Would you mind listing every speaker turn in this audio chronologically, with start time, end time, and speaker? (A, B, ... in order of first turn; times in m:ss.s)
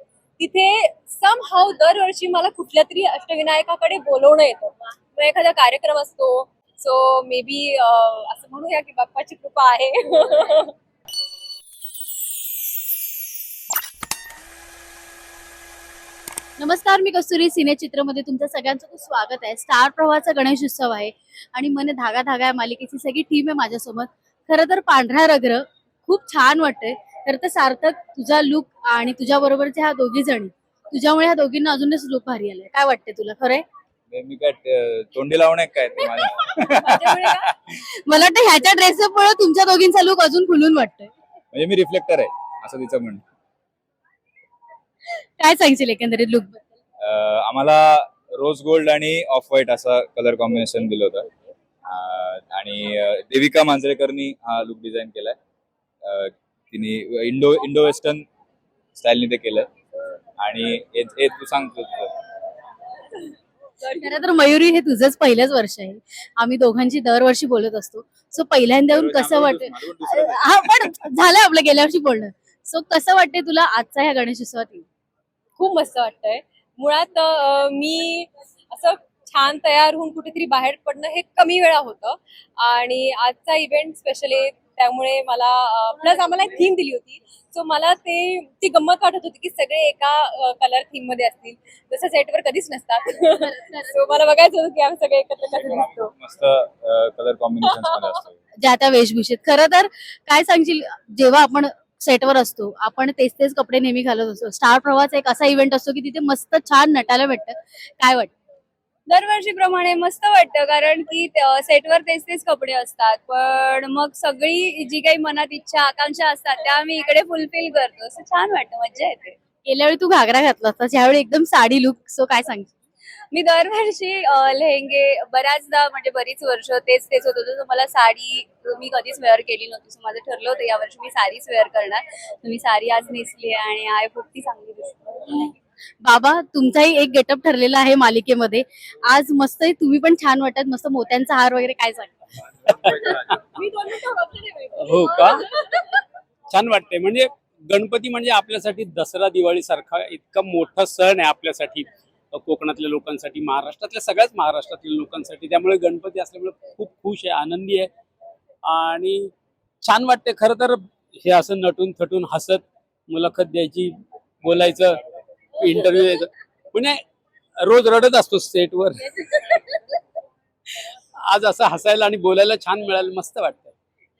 0:00.4-0:10.7 A
0:16.6-0:33.6 B
0:34.1-0:37.2 C
0:36.1-0:37.5 A
0:37.7-0:41.1 B
0:41.5-0:43.2 C
0:45.2-0:46.6 B
0:47.0-0:51.3 C
0:51.9-0:55.4 C
0:56.0-0:58.3 C
0:59.0-0:59.7 C
1:00.4-1:02.1 C
1:04.0-1:14.8 B
1:08.9-1:10.9 C
1:15.6-1:36.1 A
1:35.5-1:38.4 C
1:37.6-1:37.9 A
1:38.6-1:48.3 B
1:49.1-1:59.4 D
1:59.7-2:02.7 B
2:03.3-2:15.5 D
2:16.0-2:22.2 B
2:22.7-2:23.3 E
2:22.9-2:26.0 A
2:24.8-2:25.4 E
2:26.5-2:37.9 E
2:38.6-2:39.3 E
2:39.8-2:45.0 E
2:45.6-2:47.0 E
2:47.6-2:49.2 E
2:51.2-2:53.7 E